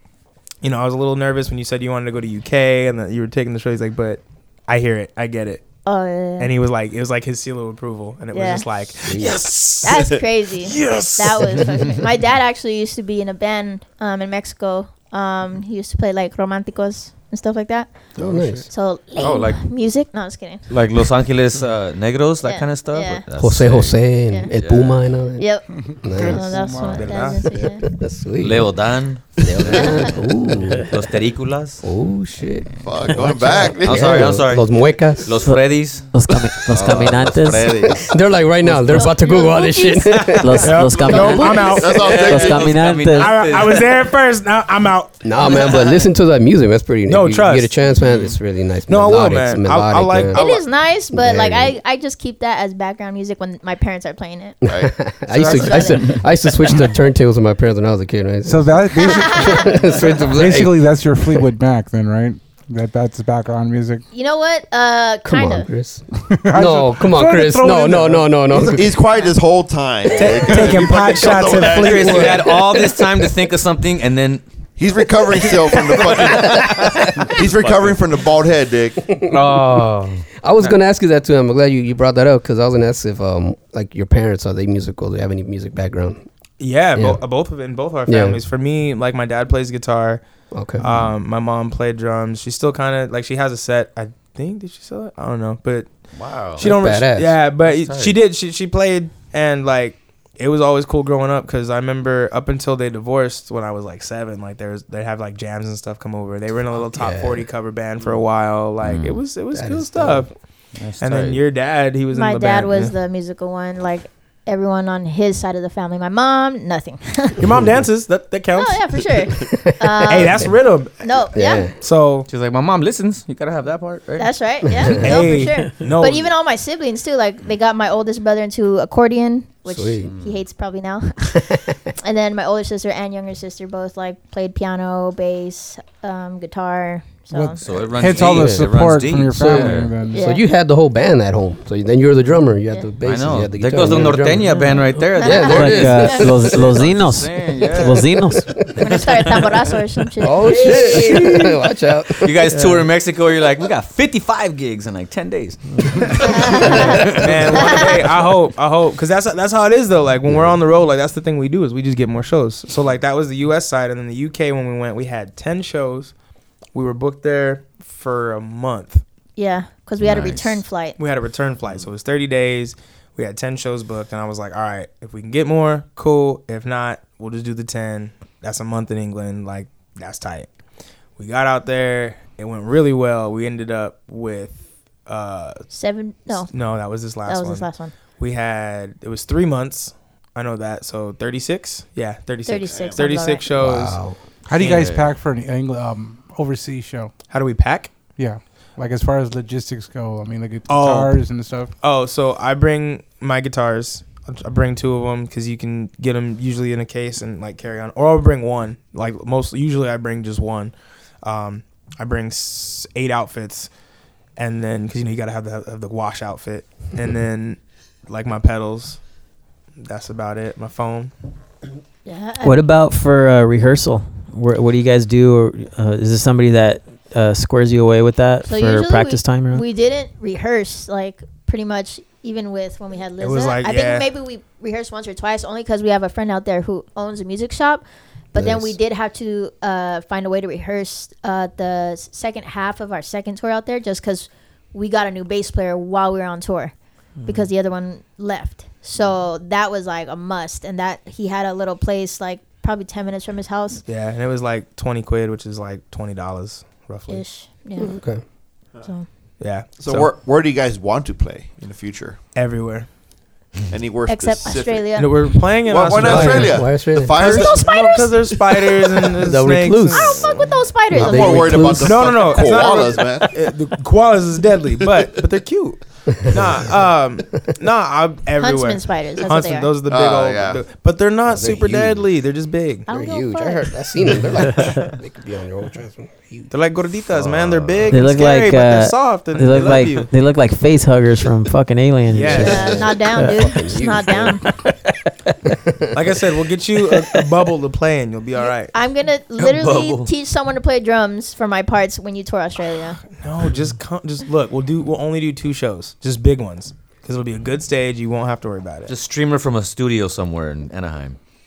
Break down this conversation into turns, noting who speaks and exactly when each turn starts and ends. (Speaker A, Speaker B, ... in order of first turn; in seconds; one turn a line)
Speaker A: 0.6-5.7
Speaker B: 5.8-6.5
Speaker A: 6.4-10.1
Speaker B: 8.3-8.7
Speaker C: 9.1-9.4
Speaker B: 9.8-18.1
Speaker A: 10.7-12.0
Speaker D: 18.2-18.7
Speaker C: 18.2-18.7
Speaker B: 18.7-20.7
Speaker E: 19.2-19.7
Speaker E: 20.7-25.1
Speaker B: 22.4-23.3
Speaker C: 23.4-26.5
Speaker B: 25.4-27.8
Speaker F: 25.8-27.7
Speaker A: 26.9-27.6
Speaker C: 27.8-30.9
Speaker E: 28.4-31.8
Speaker B: 29.8-30.1
Speaker C: 31.8-35.4
Speaker D: 32.8-34.4
Speaker E: 33.8-36.2
Speaker G: 35.4-38.0
Speaker E: 36.7-38.1
Speaker D: 36.8-37.9
Speaker C: 38.0-40.8
Speaker E: 38.6-39.1
Speaker B: 38.9-41.9
Speaker G: 40.4-43.6
Speaker A: 40.6-42.1
Speaker D: 41.7-42.8
Speaker E: 42.0-43.9
Speaker A: 43.1-45.8
Speaker C: 45.2-50.5
Speaker B: 45.4-46.0
Speaker A: 47.1-47.8
Speaker D: 47.9-48.4
Speaker A: 48.9-50.6
Speaker B: 50.3-54.6
Speaker C: 51.1-51.8
Speaker C: 54.6-61.0
Speaker D: 54.6-55.2
Speaker A: 55.3-56.2
Speaker B: 55.5-56.2
Speaker F: 58.5-64.0
Speaker B: 59.0-59.7
Speaker B: 64.1-65.7
Speaker C: 65.2-69.0
Speaker F: 66.3-68.8
Speaker D: 68.6-72.6
Speaker A: 70.1-72.4
Speaker E: 71.6-74.4
Speaker D: 74.8-79.0
Speaker E: 75.4-78.0
Speaker C: 79.1-86.2
Speaker E: 79.4-79.9
Speaker A: 86.6-90.2
Speaker C: 88.1-88.4
Speaker C: 90.5-91.0
Speaker A: 90.8-95.9
Speaker E: 96.1-96.6
Speaker A: 96.6-110.3
Speaker C: 96.6-97.4
Speaker E: 97.6-98.2
Speaker C: 106.9-107.5
Speaker E: 108.8-109.2
Speaker C: 109.5-110.3
Speaker E: 110.8-111.4
Speaker A: 111.0-113.0
Speaker B: 112.1-117.5
Speaker A: 117.4-118.8
Speaker C: 117.5-117.8
Speaker B: 118.5-120.5
Speaker C: 119.4-120.4
Speaker A: 120.0-121.0
Speaker B: 121.0-121.7
Speaker C: 121.3-121.7
Speaker A: 121.7-122.3
Speaker E: 122.3-124.3
Speaker B: 124.2-137.6
Speaker C: 124.7-125.2
Speaker A: 125.0-126.3
Speaker C: 129.7-130.1
Speaker E: 130.0-130.4
Speaker C: 131.5-131.8
Speaker F: 137.3-140.3
Speaker E: 137.6-139.9
Speaker C: 138.2-138.7
Speaker C: 139.5-146.5
Speaker B: 140.1-140.4
Speaker E: 143.0-149.7
Speaker G: 144.5-144.8
Speaker B: 145.2-145.6
Speaker G: 145.5-148.5
Speaker B: 148.8-151.2
Speaker C: 150.2-152.4
Speaker E: 152.2-157.8
Speaker G: 152.5-152.8
Speaker B: 156.2-158.1
Speaker A: 157.1-166.1
Speaker C: 160.3-160.6
Speaker A: 166.7-169.0
Speaker B: 169.4-171.0
Speaker E: 170.0-170.6
Speaker A: 171.0-180.5
Speaker A: 181.2-185.6
Speaker B: 185.7-188.0
Speaker A: 186.5-194.0
Speaker B: 192.4-193.5
Speaker D: 192.7-193.0
Speaker C: 193.5-194.2
Speaker F: 194.5-197.2
Speaker E: 194.6-195.1
Speaker A: 197.3-197.9
Speaker F: 198.2-201.8
Speaker A: 200.7-213.7
Speaker A: 214.4-219.0
Speaker A: 219.8-221.1
Speaker B: 222.1-222.6
Speaker G: 222.4-229.7
Speaker B: 228.5-253.8
Speaker A: 233.2-234.1
Speaker C: 238.3-238.8
Speaker A: 253.9-257.2
Speaker B: 257.1-258.0
Speaker C: 257.8-258.2
Speaker B: 258.8-259.1
Speaker A: 259.4-260.1
Speaker D: 259.8-262.2
Speaker A: 262.3-262.9
Speaker D: 263.7-264.9
Speaker B: 264.1-265.5
Speaker A: 265.0-270.6
Speaker D: 265.6-267.7
Speaker C: 265.9-267.2
Speaker B: 267.2-269.0
Speaker C: 269.2-270.2
Speaker B: 269.9-271.8
Speaker C: 270.9-272.4
Speaker D: 270.9-273.3
Speaker A: 271.8-282.9
Speaker B: 272.4-273.3
Speaker B: 278.4-279.8
Speaker D: 279.9-280.6
Speaker C: 281.3-282.1
Speaker B: 282.9-283.8
Speaker C: 282.9-286.5
Speaker A: 286.5-290.1
Speaker E: 287.1-288.0
Speaker G: 287.9-293.5
Speaker A: 292.1-292.8
Speaker C: 292.2-294.4
Speaker B: 292.4-294.4
Speaker C: 295.7-296.0
Speaker A: 295.9-298.7
Speaker B: 298.4-303.0
Speaker E: 299.4-300.1
Speaker A: 303.1-308.9
Speaker E: 308.9-311.2